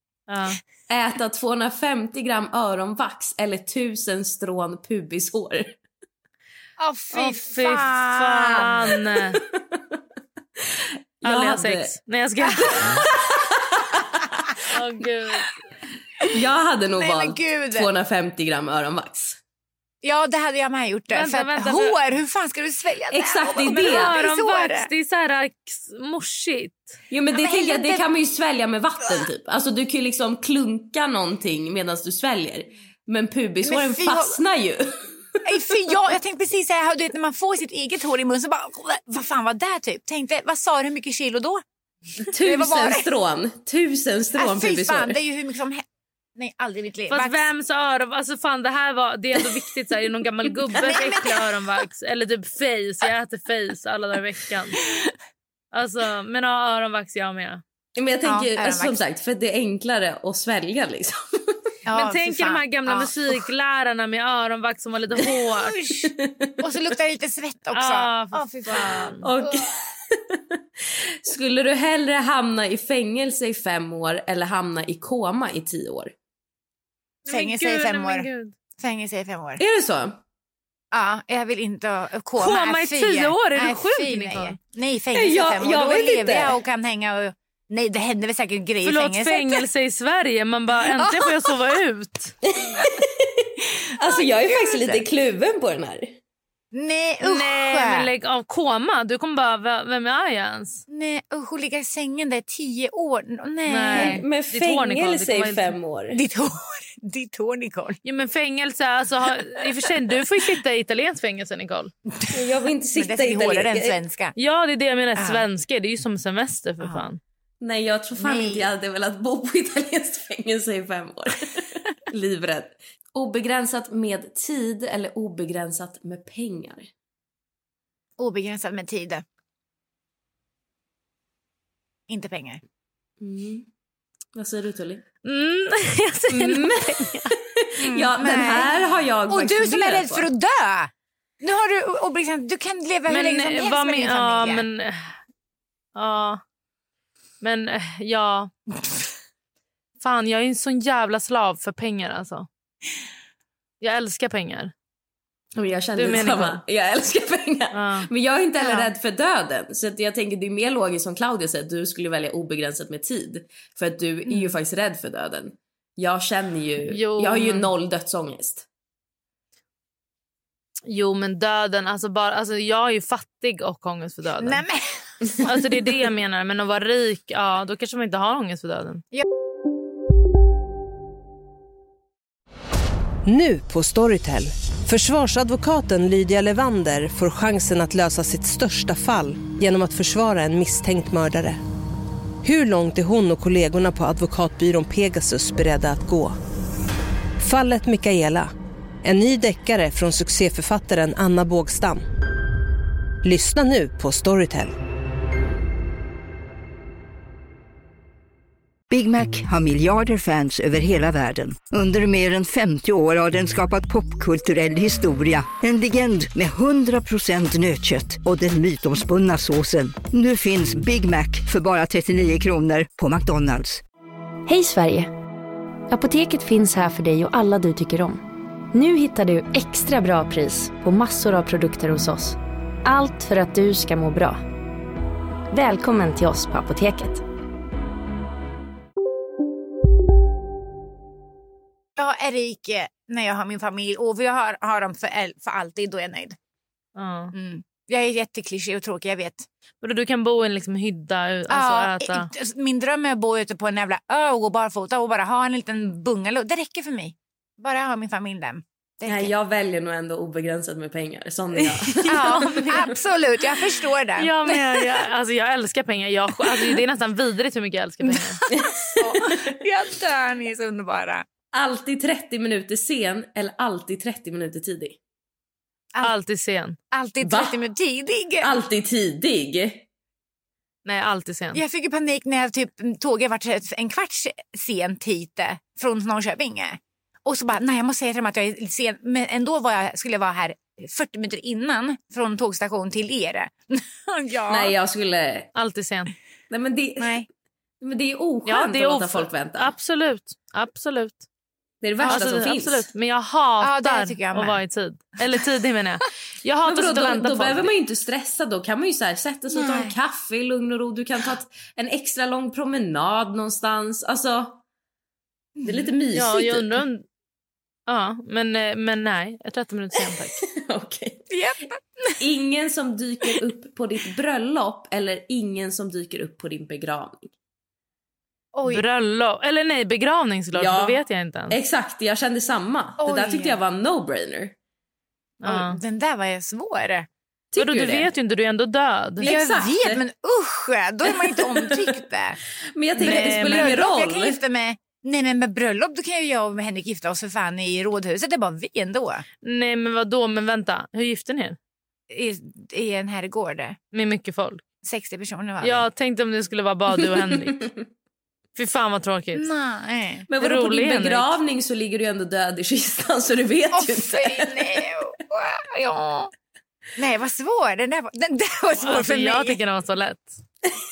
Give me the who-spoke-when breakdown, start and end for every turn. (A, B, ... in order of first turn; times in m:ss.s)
0:00.3-0:00.6 A
0:00.9-0:05.8 B
0:06.8-0:08.7 C
0:07.1-0:09.4 A
0:11.2-0:13.1 A
0:11.2-0:11.9 B
0:13.8-0:14.2 B
0:14.7-0:15.5 A
0:16.2-0:19.4 B
0:17.0-0:17.9 C
0:20.0-0:24.9 C
0:21.1-0:22.0 A
0:23.1-0:24.2 B
0:23.6-0:26.9 A
0:27.1-0:35.0 B
0:27.3-0:28.1 C
0:33.6-0:34.4 C
0:35.4-0:41.6 C
0:42.2-0:43.1 C
0:42.3-0:45.2 B
0:44.3-0:45.8 C
0:46.4-0:47.5 C
0:47.1-0:54.8 A
0:50.7-0:51.6 C
0:55.7-0:57.6 A
0:58.0-1:01.5 B
0:58.2-0:59.0 C
1:01.8-1:03.4 C
1:01.9-1:05.7 A
1:05.2-1:09.6 C
1:06.0-1:06.5 B
1:07.7-1:09.3 A
1:08.7-1:10.2 B
1:11.2-1:16.1 B
1:17.2-1:18.5 A
1:17.3-1:18.3 C
1:18.8-1:19.6 C
1:19.6-1:20.2 B
1:20.9-1:29.7 C
1:22.4-1:24.6 A
1:25.1-1:26.6 B
1:28.8-1:32.3 A
1:30.9-1:31.5 C
1:32.6-1:36.1 B
1:34.1-1:35.0 C
1:36.7-1:38.1 C
1:37.2-1:40.8 A
1:40.9-1:44.2 C
1:43.7-1:45.8 A
1:43.9-1:46.2 B
1:46.1-1:48.0 C
1:48.0-1:51.9 A
1:52.3-1:54.0 B
1:52.9-1:54.3 C
1:54.4-1:57.2 A
1:55.2-1:55.4 C
1:57.6-2:06.9 B
1:58.2-1:58.7 C
2:08.2-2:09.2 C
2:12.1-2:12.6 C
2:13.2-2:13.6 B
2:14.3-2:15.0 B
2:15.2-2:17.3 A
2:16.3-2:20.3 B
2:17.8-2:20.9 C
2:21.4-2:24.6 C
2:23.1-2:25.2 A
2:26.0-2:26.4 A
2:27.4-2:28.5 A
2:30.0-2:32.5 A
2:33.8-2:34.7 A
2:35.6-2:48.6 B
2:35.9-2:36.6 A
2:37.7-2:38.1 A
2:38.6-2:38.9 C
2:44.3-2:44.5 C
2:46.8-2:47.7 A
2:50.9-2:54.6 A
2:54.4-2:54.8 C
2:55.4-2:59.0 A
3:03.2-3:11.6 D
3:12.4-3:16.4 D
3:17.4-3:18.5 D
3:19.0-3:22.0 D
3:23.2-3:24.7 D
3:28.9-3:43.8 E
3:44.5-3:45.1 F
3:45.9-3:48.2 F
3:48.7-3:54.4 F
3:55.5-3:57.2 F
4:02.0-4:06.4 C
4:07.0-4:07.3 A
4:07.3-4:09.4 C
4:09.8-4:12.3 A
4:11.5-4:19.3 C
4:19.0-4:23.0 B
4:21.7-4:22.5 A
4:22.1-4:25.0 C
4:24.2-4:28.4 A
4:28.0-4:31.2 C
4:28.5-4:29.0 B
4:31.5-4:35.0 B
4:36.0-4:36.8 A
4:36.9-4:38.6 C
4:37.2-4:37.6 B
4:38.4-4:39.8 B
4:40.8-4:41.6 A
4:41.5-4:54.7 C
4:54.5-4:55.5 B
4:55.5-4:56.1 A
4:56.5-4:57.2 B
4:57.0-4:57.2 C
4:57.8-4:59.7 B
4:58.4-5:01.2 A
5:01.8-5:02.9 B
5:02.0-5:02.2 C
5:02.1-5:07.7 A
5:03.6-5:04.6 C
5:06.6-5:14.6 B
5:09.5-5:10.0 C
5:15.6-5:15.9 C
5:15.6-5:16.8 B
5:16.1-5:17.0 A
5:17.9-5:20.4 A
5:20.3-5:21.2 B
5:21.3-5:22.2 C
5:22.2-5:27.3 B
5:28.5-5:28.8 C
5:28.7-5:31.6 A
5:30.5-5:31.0 B
5:31.5-5:34.5 B
5:33.0-5:33.6 C
5:35.4-5:35.8 A
5:35.4-5:37.0 C
5:37.5-5:38.1 B
5:37.6-5:39.4 A
5:39.2-5:40.0 B
5:39.2-5:42.4 C
5:41.4-5:41.8 B
5:42.7-5:44.4 B
5:43.0-5:49.2 C
5:43.0-5:43.8 A
5:49.4-5:51.6 A
5:52.1-5:53.8 C
5:53.9-5:54.6 A
5:54.8-5:55.8 C
5:55.6-5:57.7 A
5:58.6-5:59.5 A
5:59.3-6:00.3 C
6:00.3-6:04.8 B
6:00.4-6:01.4 A
6:03.7-6:06.3 C
6:07.0-6:09.6 C
6:08.8-6:10.4 A